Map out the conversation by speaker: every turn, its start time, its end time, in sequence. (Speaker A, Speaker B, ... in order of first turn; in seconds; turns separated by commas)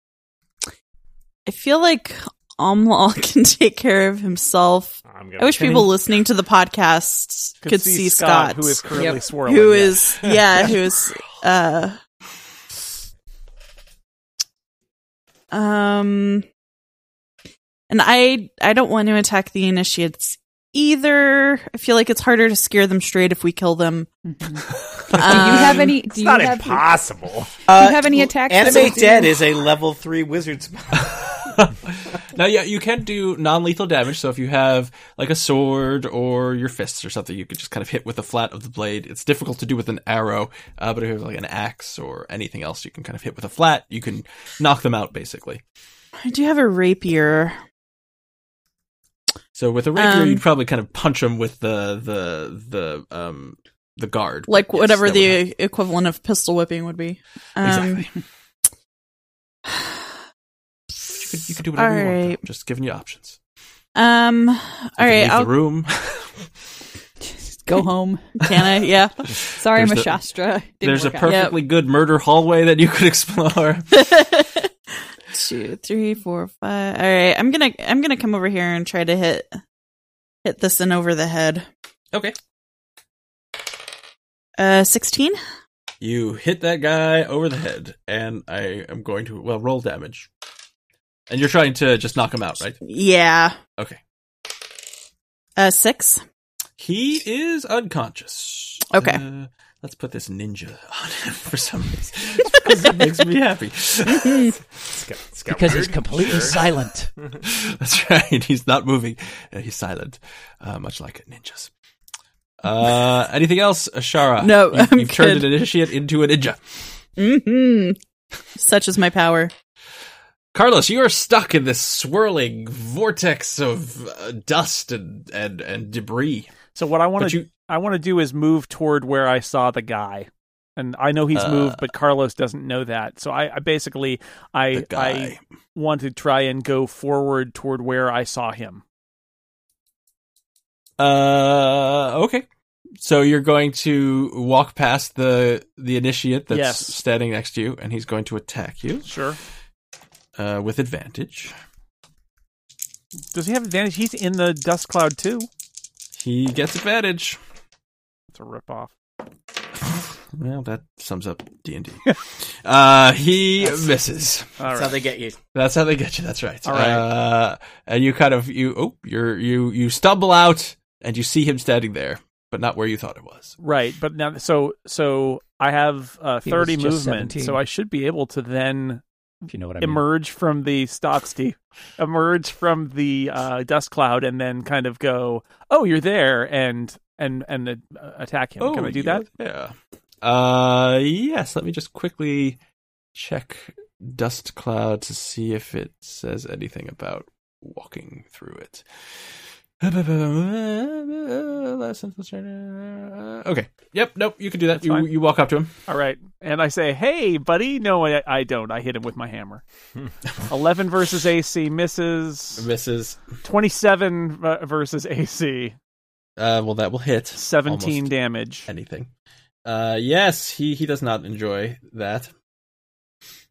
Speaker A: 1.4-12.0, Speaker B: 5.1-5.8, Speaker C: 7.6-10.1, Speaker D: 8.9-9.2, Speaker A: 15.5-16.4, Speaker A: 17.9-24.1, Speaker D: 24.2-27.0, Speaker A: 25.1-25.9, Speaker B: 26.0-27.5, Speaker E: 27.7-31.2, Speaker D: 27.7-29.4, Speaker F: 30.9-45.6, Speaker A: 46.2-47.6, Speaker F: 49.5-55.4, Speaker A: 49.9-50.4, Speaker A: 54.5-58.1, Speaker F: 57.6-58.1, Speaker A: 59.7-59.9, Speaker F: 61.1-63.4, Speaker A: 61.7-62.4, Speaker A: 63.9-65.5, Speaker F: 65.0-66.4, Speaker D: 67.6-68.4, Speaker A: 68.4-69.3, Speaker D: 69.6-71.4, Speaker F: 69.6-70.2, Speaker F: 70.8-73.9, Speaker A: 71.2-71.6, Speaker A: 73.9-74.7, Speaker A: 75.3-79.6, Speaker A: 80.4-81.7, Speaker A: 84.6-85.4, Speaker F: 86.0-90.3, Speaker F: 91.3-92.8, Speaker A: 92.8-93.6, Speaker A: 95.6-96.2, Speaker F: 96.8-104.5, Speaker A: 98.9-99.2, Speaker A: 104.1-104.5, Speaker B: 104.9-106.6, Speaker G: 105.5-107.1, Speaker F: 107.4-111.7, Speaker F: 112.6-116.6, Speaker A: 114.4-115.5, Speaker A: 117.2-118.0, Speaker A: 118.5-119.5, Speaker F: 120.5-126.5, Speaker C: 126.7-138.8, Speaker F: 127.2-127.5, Speaker F: 131.3-131.8, Speaker F: 134.7-135.4, Speaker F: 141.0-142.4, Speaker F: 143.0-149.1, Speaker C: 146.5-147.0, Speaker C: 149.0-149.4, Speaker F: 150.3-151.5, Speaker C: 153.3-155.5, Speaker F: 156.2-157.4, Speaker C: 158.3-158.9, Speaker F: 160.3-164.5, Speaker C: 164.6-165.0, Speaker E: 164.7-165.3, Speaker F: 165.5-173.5, Speaker C: 166.6-167.1, Speaker C: 173.6-179.0, Speaker G: 176.4-177.6, Speaker G: 179.5-180.0, Speaker C: 179.8-189.2, Speaker F: 188.6-192.6, Speaker F: 193.1-199.3, Speaker F: 199.8-205.7, Speaker C: 204.8-205.1, Speaker C: 205.9-209.6, Speaker C: 210.5-212.7, Speaker F: 212.6-213.3, Speaker C: 213.4-215.8, Speaker F: 216.4-218.1, Speaker C: 217.3-218.7, Speaker F: 218.7-219.1, Speaker F: 219.6-222.3